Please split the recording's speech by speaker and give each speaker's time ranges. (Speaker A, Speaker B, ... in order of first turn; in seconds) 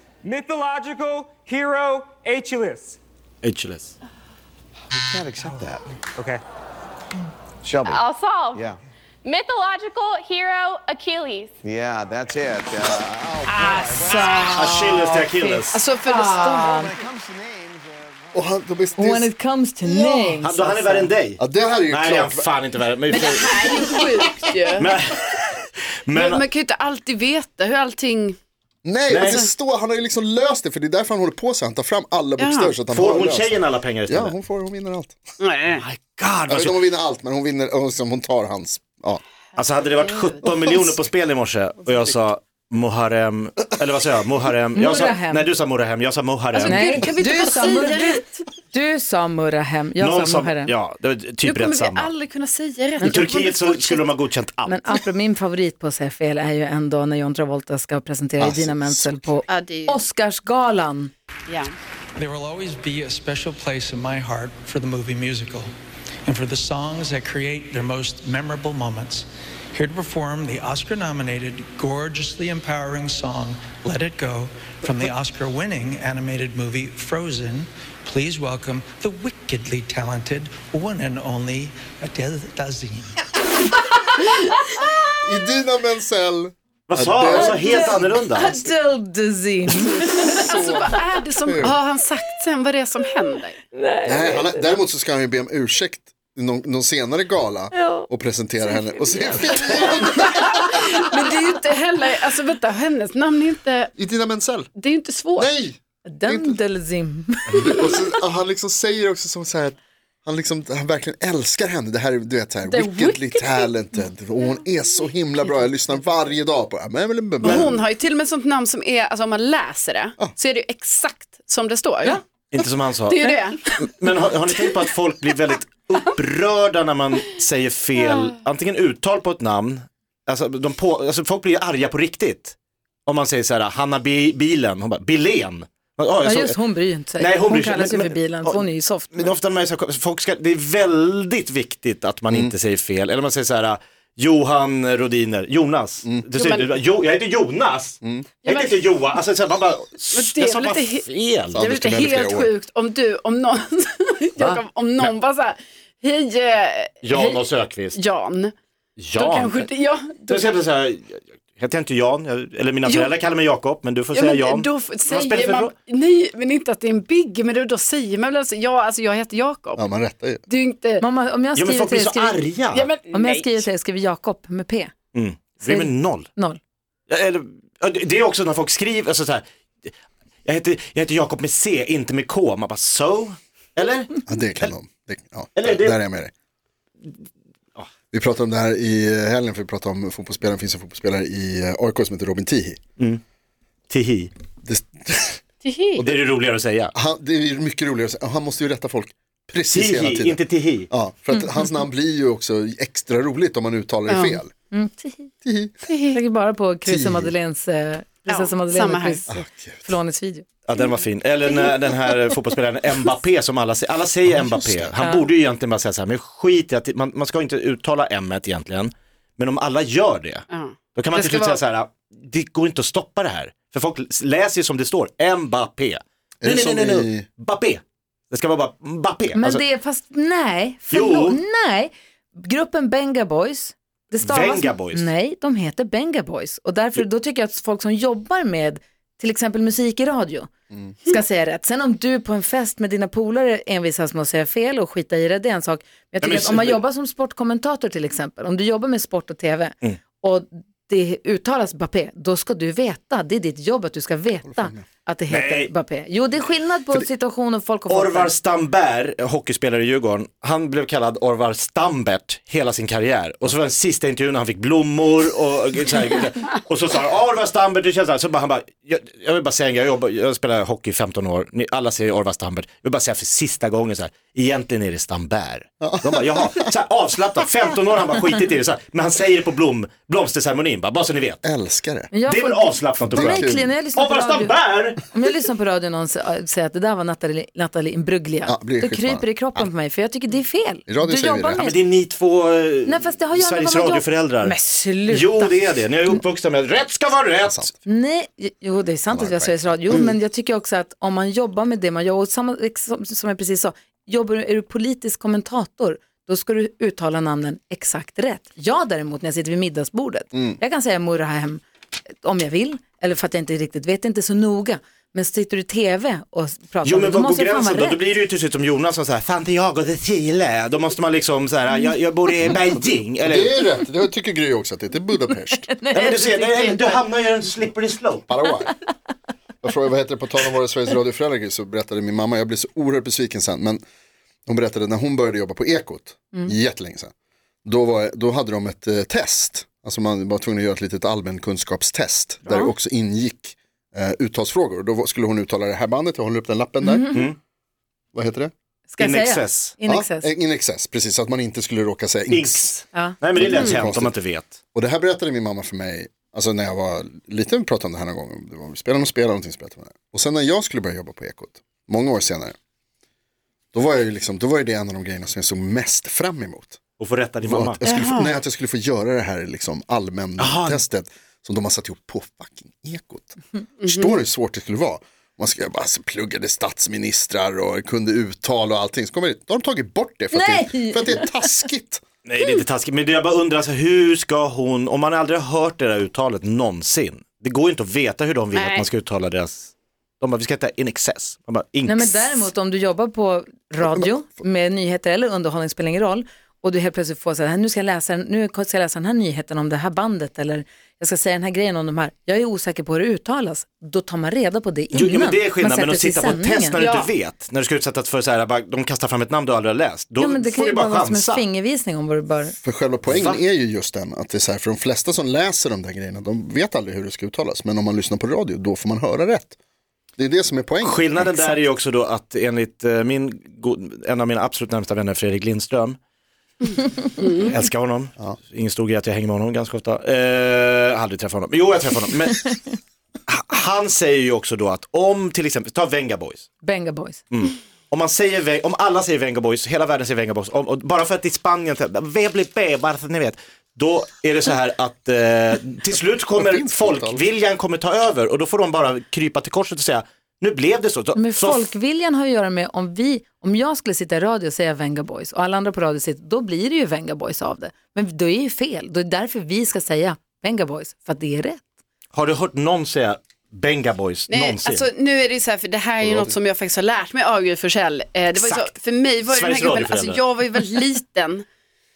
Speaker A: 0.2-3.0, 6.2-6.4
Speaker B: 3.4-3.9, 14.5-15.8, 20.4-23.9, 24.8-25.4, 26.1-26.4, 29.1-29.4, 32.9-34.3, 35.7-36.8, 39.5-47.1, 50.0-52.1, 53.0-54.9, 86.9-88.5, 117.4-117.7, 122.5-132.5, 133.1-136.6, 137.2-151.6, 154.4-155.1, 157.0-158.0, 159.0-159.7, 160.3-165.7, 171.6-172.9, 175.1-176.3, 177.1-179.9, 180.4-184.2, 185.5-186.0, 193.9-194.3, 196.0-196.9, 199.7-200.9, 210.7-229.6, 230.9-231.4, 234.2-235.1, 246.2-246.8, 255.3-255.7, 257.9-281.4, 282.3-285.0, 291.6-297.7, 316.8-323.6, 325.9-328.3, 349.0-349.7, 352.3-354.6, 367.0-367.8, 370.4-370.8, 382.2-392.5, 404.9-411.4, 413.1-413.4, 420.8-426.0, 427.3-432.6, 433.3-436.5, 437.3-451.7, 462.1-464.9, 468.4-468.7, 469.2-470.2
Speaker C: 5.0-6.0, 7.6-8.8, 11.6-15.2, 16.2-18.8
Speaker D: 7.9-8.6, 9.2-11.5
Speaker E: 13.8-16.9, 19.0-21.1, 44.7-45.5, 46.6-50.7, 54.6-61.1, 87.3-90.3, 93.7-94.5, 97.8-98.0, 106.0-107.8, 136.2-139.2, 171.0-172.4, 173.1-174.9, 175.6-176.6, 204.7-205.3, 206.1-210.4, 229.3-240.5, 241.0-258.3, 282.1-291.8, 292.8-295.5, 297.8-311.6, 312.2-318.0, 325.8-326.6, 342.4-342.7, 346.8-347.3, 348.9-350.3, 380.3-381.5, 391.9-406.8, 410.2-412.5, 436.6-437.2, 451.1-461.6
Speaker F: 15.7-16.7, 23.1-24.9, 26.1-28.3, 29.2-29.4, 32.4-32.8, 35.4-35.8, 39.9-40.4, 46.5-48.4, 51.4-54.0, 59.5-60.0, 90.0-93.6, 100.0-103.9, 104.8-105.5, 112.7-113.7, 117.4-122.2, 123.0-123.7, 146.3-146.8, 148.4-148.8, 150.1-158.5, 159.1-160.6, 162.8-163.1, 164.1-169.8, 170.5-171.0, 172.7-173.6, 195.6-196.1, 204.1-204.4, 205.9-206.2, 208.2-209.2, 220.5-221.6, 367.8-368.4, 373.8-374.2, 388.5-388.9, 406.8-407.1, 464.3-471.4
Speaker G: 18.3-19.3, 19.8-20.4, 21.4-22.5, 28.8-35.2, 36.5-39.2, 58.4-59.3, 85.1-88.7, 89.7-91.8, 94.0-100.4, 104.0-104.7, 105.3-106.6, 107.5-117.7, 148.0-148.3, 151.5-152.5, 169.8-170.4, 184.3-186.3, 188.1-192.8, 194.6-195.4, 196.9-200.4, 200.9-204.5, 205.4-205.7, 206.8-207.3, 209.3-209.9, 214.3-214.9, 226.4-227.3, 254.5-254.8, 275.8-276.7, 281.4-282.1, 283.0-283.7, 288.5-289.7, 290.9-291.6, 297.4-297.7, 299.1-300.1, 310.3-310.6, 323.2-325.7, 328.3-328.7, 329.6-333.8, 334.5-337.1, 337.6-347.2, 348.1-348.5, 349.8-352.8, 353.3-354.1, 354.7-362.5, 363.7-366.8, 367.4-382.0, 393.8-394.1, 412.6-419.6, 420.2-421.2, 446.4-447.2, 466.0-466.3
Speaker H: 62.1-65.7, 66.2-83.3